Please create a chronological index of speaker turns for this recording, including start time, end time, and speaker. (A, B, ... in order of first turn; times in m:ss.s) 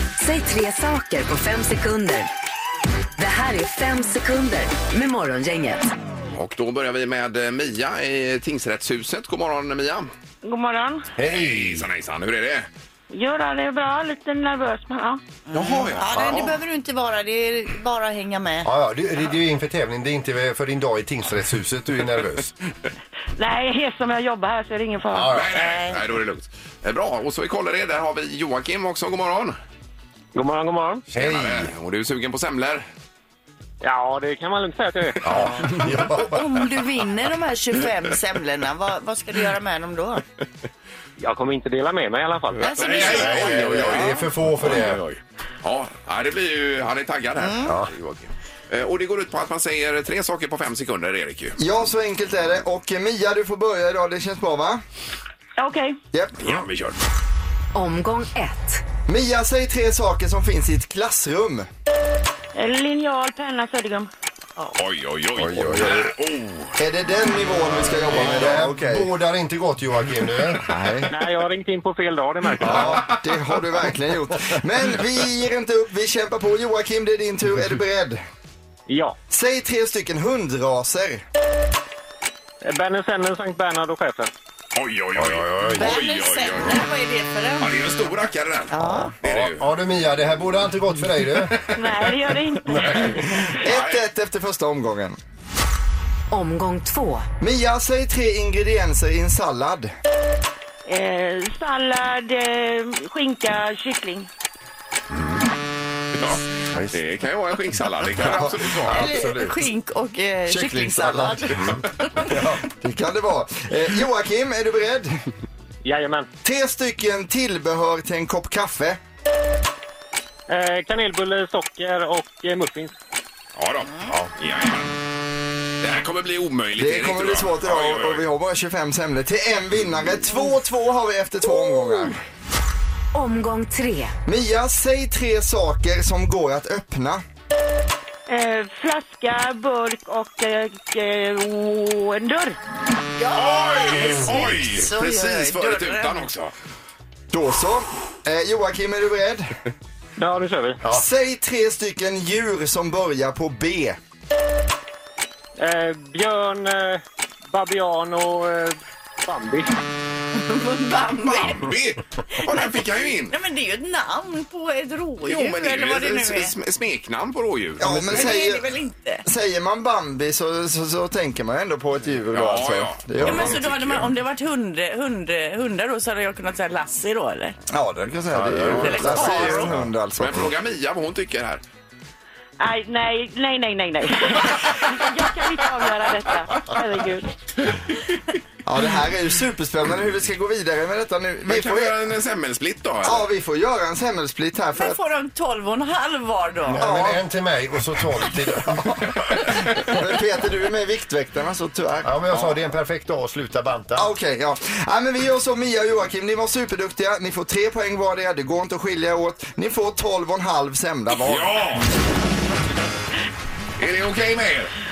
0:00.2-0:02.3 A
0:03.2-0:05.8 A
0:06.4-0:10.1 B
0:10.4-0:11.1 C
0:11.2-0:11.9 D
0:11.3-0:12.7 B
0:13.1-0:15.2 C
0:15.5-0:18.7 E
0:15.5-0:16.5 B
0:16.1-0:16.5 D
0:18.6-0:22.5 D
0:23.4-0:25.4 C
0:25.1-0:25.7 D
0:25.3-0:29.6 B
0:30.4-0:31.0 F
0:31.1-0:31.7 D
0:31.1-0:32.8 B
0:33.8-0:35.4 F
0:35.2-0:36.4 D
0:36.2-0:40.2 E
0:41.2-0:43.4 F
0:42.5-0:51.6 B
0:42.6-0:43.5 E
0:43.1-0:45.0 D
0:47.4-0:47.7 E
0:47.6-0:47.9 D
0:51.6-0:54.8 G
0:55.6-0:56.0 C
0:56.4-0:57.0 B
0:57.7-0:58.8 A
0:59.1-1:01.7 G
1:02.6-1:04.1 C
1:04.8-1:06.8 B
1:05.4-1:06.1 D
1:06.8-1:09.1 G
1:08.0-1:10.8 D
1:11.1-1:12.8 F
1:12.6-1:13.2 B
1:12.6-1:13.1 D
1:13.0-1:18.2 G
1:18.9-1:19.2 F
1:19.3-1:21.2 G
1:22.6-1:24.3 F
1:24.8-1:26.8 B
1:25.2-1:25.9 D
1:25.8-1:27.7 E
1:27.6-1:29.6 B
1:28.7-1:29.1 E
1:28.8-1:31.6 D
1:31.7-1:33.1 C
1:32.7-1:33.2 D
1:33.5-1:35.2 G
1:33.6-1:34.0 B
1:36.3-1:37.3 A
1:37.4-1:39.9 G
1:40.9-1:44.3 C
1:46.2-1:49.1 B
1:46.7-1:47.0 D
1:48.2-1:49.7 D
1:48.9-1:51.6 E
1:50.5-1:52.6 D
1:52.6-1:55.2 G
1:55.8-1:56.3 F
1:56.4-1:59.0 G
2:00.5-2:02.9 F
2:03.6-2:04.9 B
2:05.8-2:08.2 B
2:06.8-2:12.2 G
2:13.1-2:14.1 A
2:14.3-2:17.2 G
2:18.3-2:22.6 C
2:23.2-2:26.2 E
2:23.4-2:26.5 B
2:27.3-2:29.5 G
2:30.2-2:30.8 F
2:30.9-2:34.0 G
2:35.6-2:39.7 F
2:40.3-2:41.7 E
2:41.2-2:43.3 B
2:42.4-2:42.7 E
2:43.3-2:46.5 E
2:45.2-2:47.8 B
2:47.8-2:48.7 G
2:47.8-2:49.2 E
2:49.2-2:53.6 G
2:52.3-2:54.1 B
2:53.2-2:57.6 E
2:57.7-3:00.5 G
2:58.3-2:59.9 D
2:58.7-2:59.7 E
3:00.2-3:01.6 B
3:02.6-3:07.3 C
3:08.6-3:12.0 G
3:11.5-3:13.3 B
3:13.0-3:15.0 G
3:14.7-3:17.0 E
3:16.7-3:19.2 D
3:16.8-3:17.2 G
3:19.8-3:22.1 G
3:22.0-3:24.1 D
3:24.0-3:31.6 G
3:31.1-3:31.9 B
3:33.8-3:34.7 B